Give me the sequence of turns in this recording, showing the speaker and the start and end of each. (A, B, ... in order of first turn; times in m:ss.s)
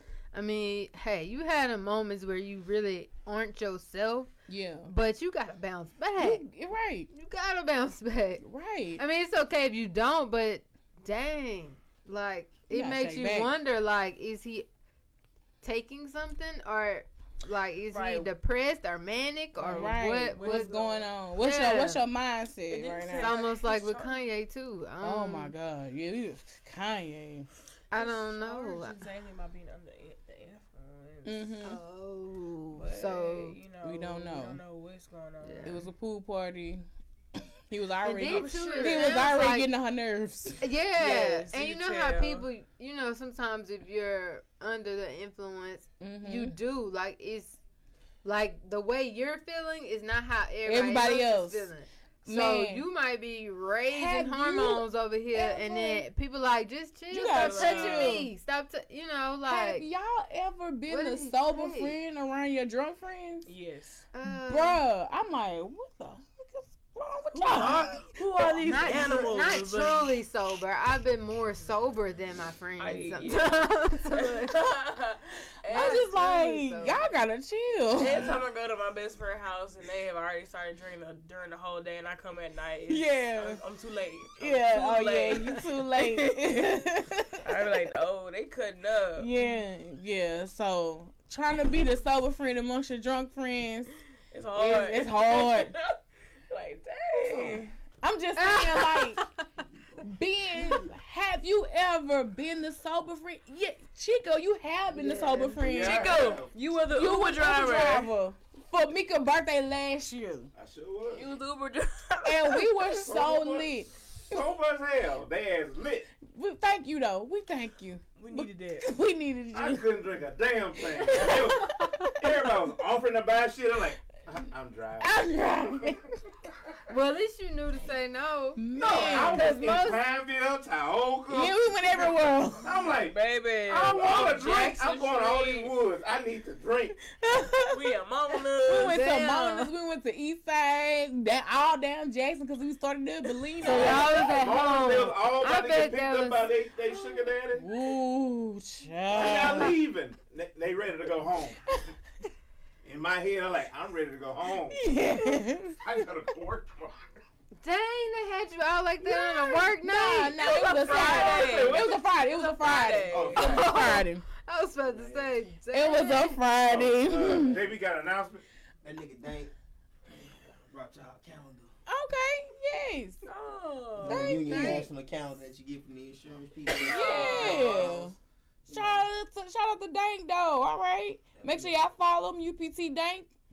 0:00.3-0:04.3 A
0:04.5-0:04.9 B
0:04.9-0:06.4 A
0:06.2-0:07.1 B
0:07.1-0:08.4 A
0:08.4-0:09.0 B
0:09.0-0:14.7 A
0:12.7-0:13.5 B
0:15.6-0:22.0 A
0:17.9-0:18.3 B
0:19.6-0:23.4 B
0:19.7-0:21.0 C
0:22.7-0:24.2 C
0:23.2-0:25.5 A
0:25.0-0:27.5 B
0:27.9-0:29.0 A
0:27.9-0:31.5 C
0:31.2-0:31.8 B
0:31.6-0:33.6 A
0:32.8-0:35.8 C
0:33.8-0:34.6 B
0:35.4-0:35.8 A
0:35.6-0:36.8 B
0:37.7-0:40.6 B
0:38.0-0:39.7 A
0:38.2-0:39.5 C
0:40.6-0:47.6 A
0:41.0-0:42.5 C
0:46.0-0:46.6 B
0:48.2-0:59.8 A
0:50.6-0:51.7 B
0:52.2-0:52.8 B
0:53.9-0:56.0 B
0:57.1-0:58.3 B
0:57.3-0:58.3 C
0:59.5-1:03.5 B
1:00.9-1:02.0 A
1:03.5-1:04.1 C
1:04.1-1:04.8 A
1:04.2-1:09.3 B
1:07.3-1:10.1 C
1:08.6-1:14.6 A
1:12.8-1:16.1 C
1:15.7-1:18.4 B
1:15.7-1:17.1 A
1:18.0-1:26.6 C
1:22.9-1:23.6 B
1:24.4-1:27.9 B
1:27.4-1:29.3 C
1:29.2-1:33.9 B
1:34.3-1:37.7 C
1:34.6-1:35.7 B
1:37.3-1:39.2 B
1:38.4-1:39.1 A
1:40.0-1:46.2 B
1:44.9-1:45.6 A
1:45.6-1:46.5 D
1:45.7-1:48.1 C
1:46.9-1:50.5 B
1:50.5-1:51.3 D
1:51.1-1:53.1 C
1:52.2-1:53.9 B
1:53.0-1:56.1 D
1:56.2-1:59.9 B
1:58.2-1:58.9 C
1:59.5-2:06.0 D
2:01.1-2:02.5 B
2:01.1-2:01.9 A
2:05.0-2:06.1 B
2:06.9-2:10.0 A
2:08.6-2:09.9 B
2:08.8-2:13.2 D
2:11.3-2:12.7 B
2:12.9-2:15.8 C
2:13.7-2:17.0 D
2:17.1-2:18.0 B
2:17.7-2:19.0 C
2:18.6-2:24.4 B
2:18.7-2:19.7 A
2:23.6-2:26.4 A
2:23.7-2:27.6 D
2:27.6-2:29.8 B
2:29.1-2:31.8 D
2:32.8-2:35.0 D
2:34.7-2:35.8 B
2:35.8-2:37.2 D
2:37.6-2:41.4 A
2:39.0-2:44.2 B
2:40.7-2:43.8 C
2:40.7-2:41.9 D
2:43.1-2:43.9 D
2:43.4-2:46.4 A
2:45.7-2:47.6 B
2:46.7-2:48.4 D
2:48.8-2:49.5 E
2:50.7-2:51.7 E
2:51.9-2:53.2 B
2:53.2-2:54.5 C
2:54.0-2:59.1 E
2:54.0-2:54.9 B
2:54.5-2:54.9 A
2:56.7-2:58.2 B
2:56.9-2:57.9 C
2:58.7-3:03.3 B
3:01.3-3:01.7 E